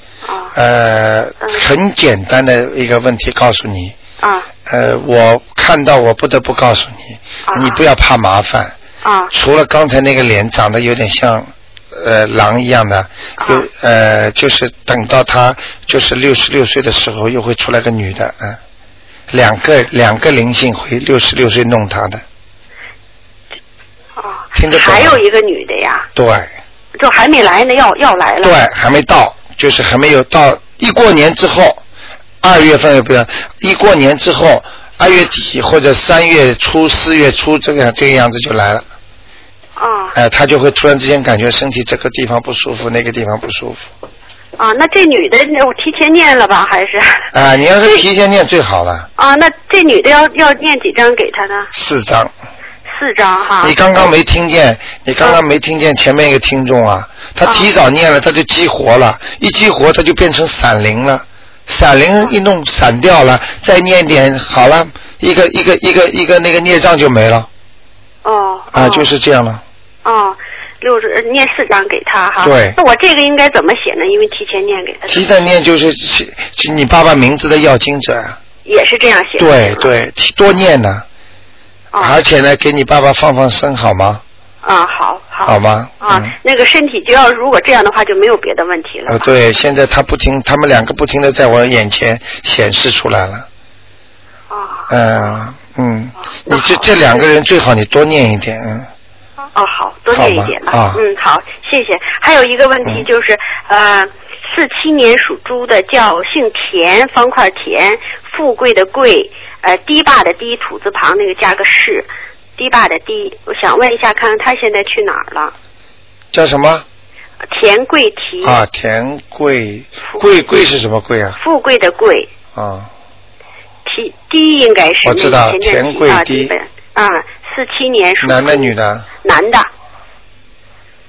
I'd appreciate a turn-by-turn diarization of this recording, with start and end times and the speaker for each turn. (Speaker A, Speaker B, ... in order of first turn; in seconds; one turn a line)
Speaker A: 0.2-0.5
Speaker B: 0.5-4.0
Speaker A: 1.4-1.7
Speaker A: 4.2-4.5
Speaker B: 4.7-8.8
Speaker A: 7.5-7.8
Speaker A: 9.0-9.3
Speaker B: 9.3-18.6
Speaker A: 13.4-13.7
Speaker B: 19.3-22.2
Speaker A: 24.2-26.1
Speaker B: 24.5-25.2
Speaker B: 26.1-26.5
Speaker A: 27.0-28.6
Speaker B: 28.4-31.8
Speaker B: 32.4-38.8
Speaker A: 39.8-40.1
Speaker B: 40.1-43.9
Speaker A: 44.6-47.3
Speaker B: 47.3-49.1
Speaker A: 49.2-51.7
Speaker B: 51.7-52.3
Speaker A: 52.9-53.8
Speaker B: 53.6-67.5
Speaker A: 57.4-57.7
Speaker A: 68.2-69.1
Speaker B: 68.7-69.6
Speaker A: 70.0-75.3
Speaker B: 72.4-72.8
Speaker B: 75.1-78.4
Speaker A: 78.6-79.9
Speaker B: 79.4-81.0
Speaker A: 81.9-82.2
Speaker B: 82.0-84.2
Speaker A: 84.6-89.2
Speaker B: 85.4-86.3
Speaker B: 89.1-93.5
Speaker A: 94.5-95.4
Speaker B: 94.9-98.9
Speaker A: 96.5-97.2
Speaker A: 99.5-115.5
Speaker B: 100.1-101.0
Speaker B: 116.3-116.8
Speaker A: 117.5-118.6
Speaker B: 118.4-121.4
Speaker A: 120.0-120.4
Speaker A: 121.4-122.3
Speaker B: 122.5-122.9
Speaker A: 123.8-129.7
Speaker B: 125.0-126.5
Speaker B: 128.2-129.1